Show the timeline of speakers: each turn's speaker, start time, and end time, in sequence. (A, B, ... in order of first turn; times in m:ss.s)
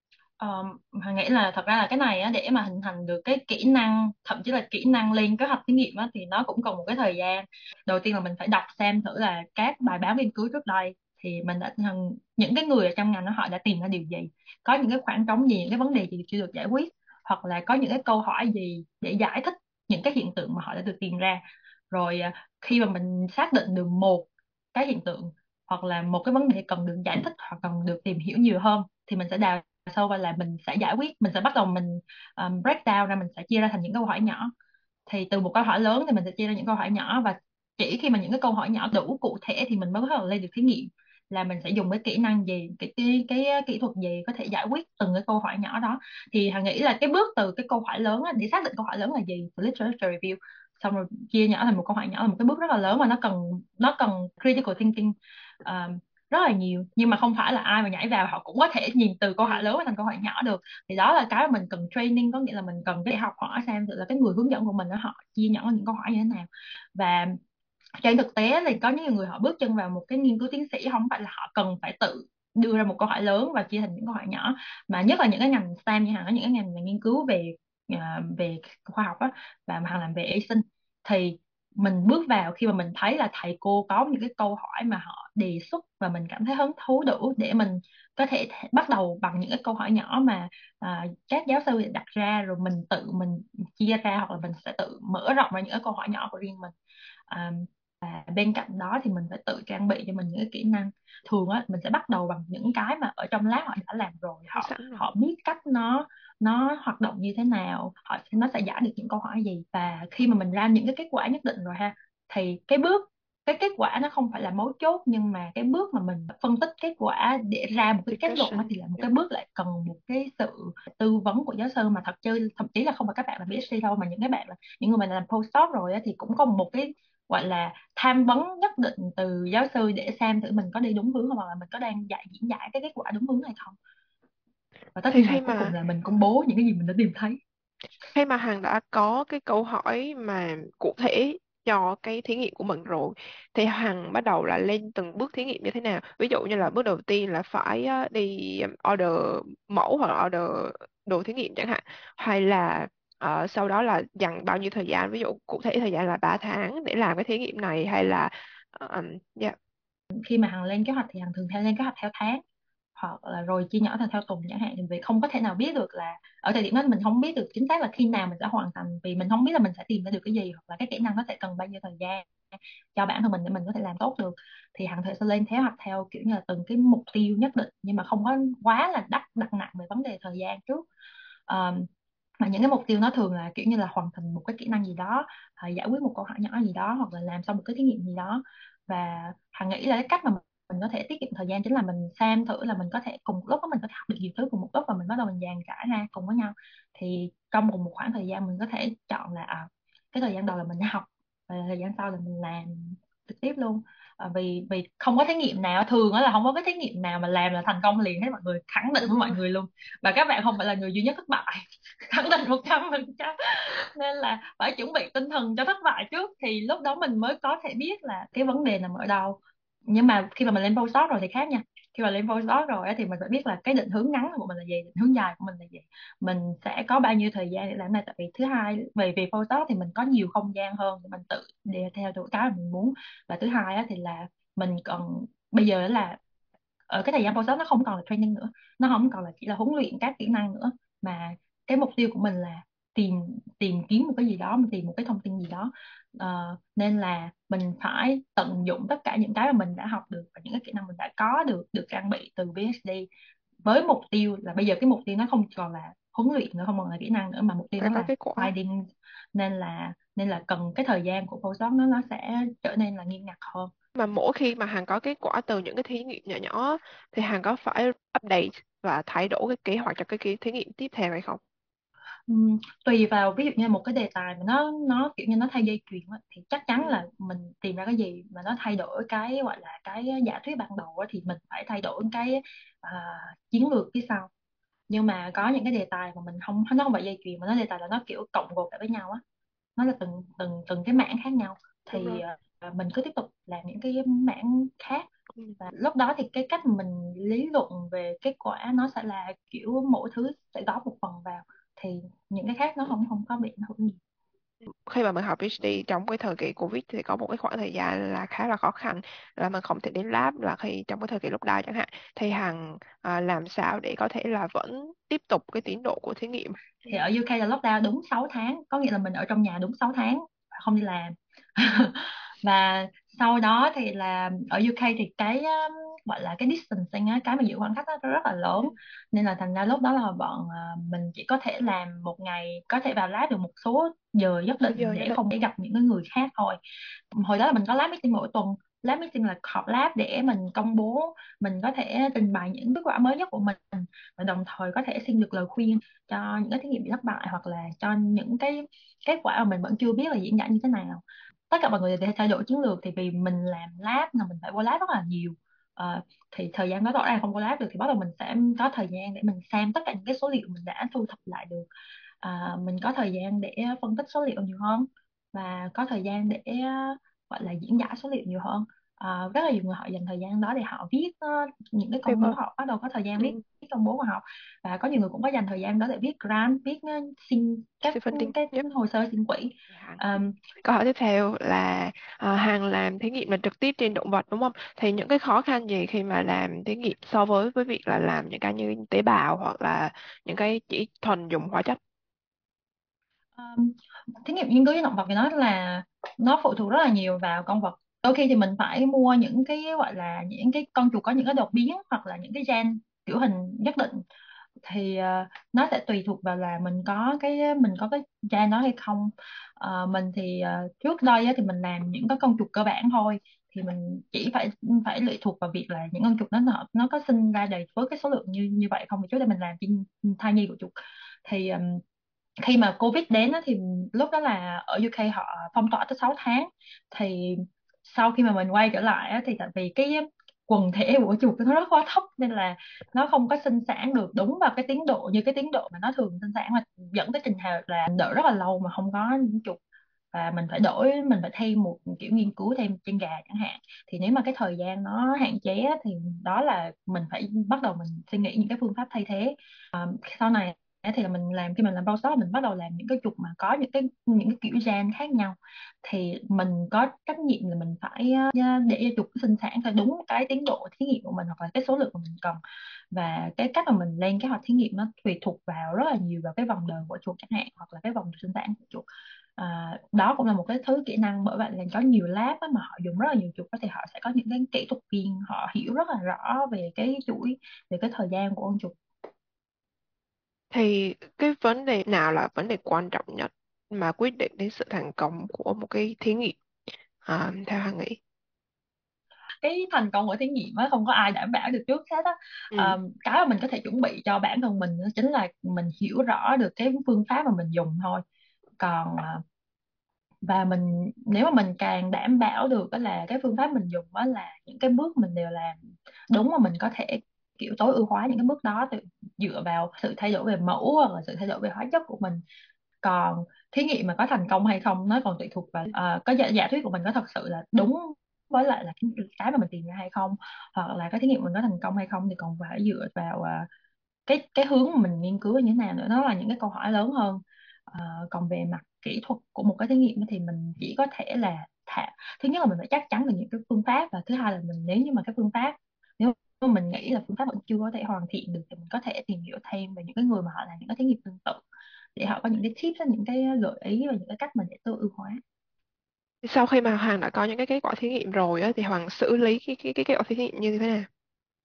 0:00.4-0:34.5 A
0:35.1-1:07.4 A
0:59.4-0:59.7 B
1:08.0-1:36.7 A
1:37.3-2:13.8 A
1:44.5-1:45.1 B
1:58.1-1:59.0 B
2:15.0-2:17.4 A
2:15.1-2:15.7 B
2:18.1-2:39.6 B
2:40.2-2:42.4 A
2:43.0-3:00.8 A
3:01.5-3:01.9 A
3:02.4-3:56.2 A
3:29.0-3:29.4 B
3:56.9-4:13.1 A
4:13.6-4:23.7 A
4:17.8-4:18.5 B
4:24.0-4:31.4 B
4:32.3-4:44.3 A
4:36.8-4:37.0 B
4:44.9-4:49.2 A
4:49.8-4:55.1 A
4:51.9-4:52.2 B
4:55.6-5:04.0 A
5:04.6-5:17.0 B
5:16.9-5:36.6 A
5:34.6-5:35.2 B
5:37.1-6:01.7 A
6:02.2-6:20.4 A
6:12.0-6:12.4 B
6:17.8-6:18.6 B
6:19.7-6:31.8 B
6:33.4-6:44.0 A
6:44.6-7:00.7 A
7:01.2-7:01.8 A
7:02.4-7:19.6 A
7:20.1-7:42.4 A
7:42.9-7:48.8 A
7:49.4-7:58.8 A
8:00.5-8:06.4 B
8:07.0-8:08.0 B
8:09.4-8:18.0 A
8:12.5-8:12.8 B
8:18.6-8:19.2 A
8:20.2-8:32.2 A
8:32.8-8:43.5 A
8:44.1-9:01.4 A
9:02.0-9:05.2 A
9:06.2-9:10.9 B